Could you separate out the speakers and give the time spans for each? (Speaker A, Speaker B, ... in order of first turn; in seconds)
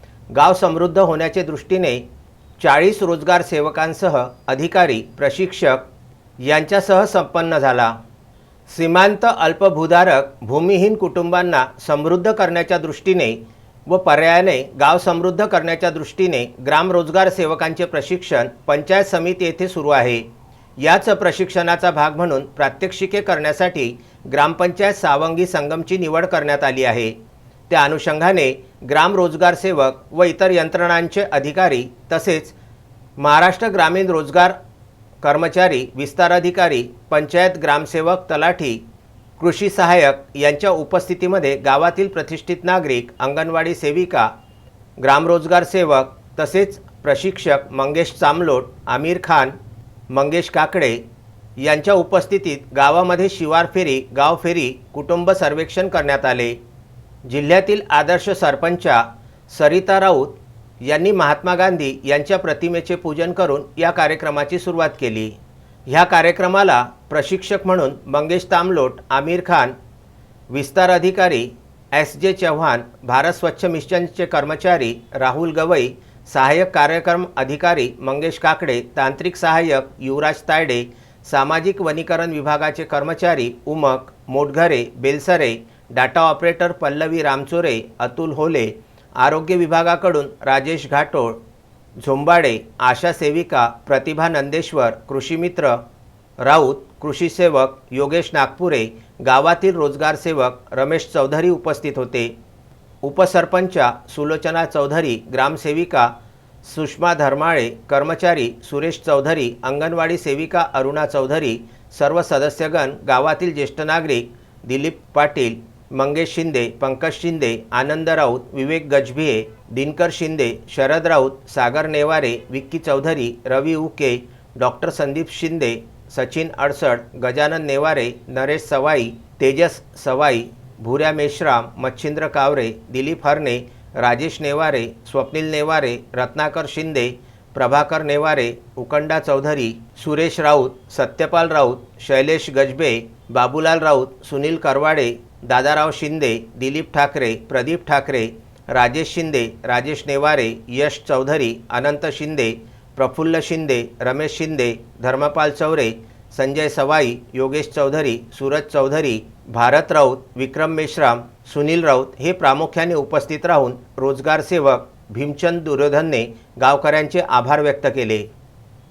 Speaker A: 0.3-2.0, 2.6-5.8, 6.4-8.0, 8.7-20.3, 20.8-27.2, 27.7-32.5, 33.2-34.5, 35.2-38.8, 39.4-44.3, 45.0-49.5, 50.1-51.0, 51.6-56.6, 57.2-69.7, 70.5-91.4, 92.0-95.8, 96.4-102.3, 103.0-106.1, 106.6-168.3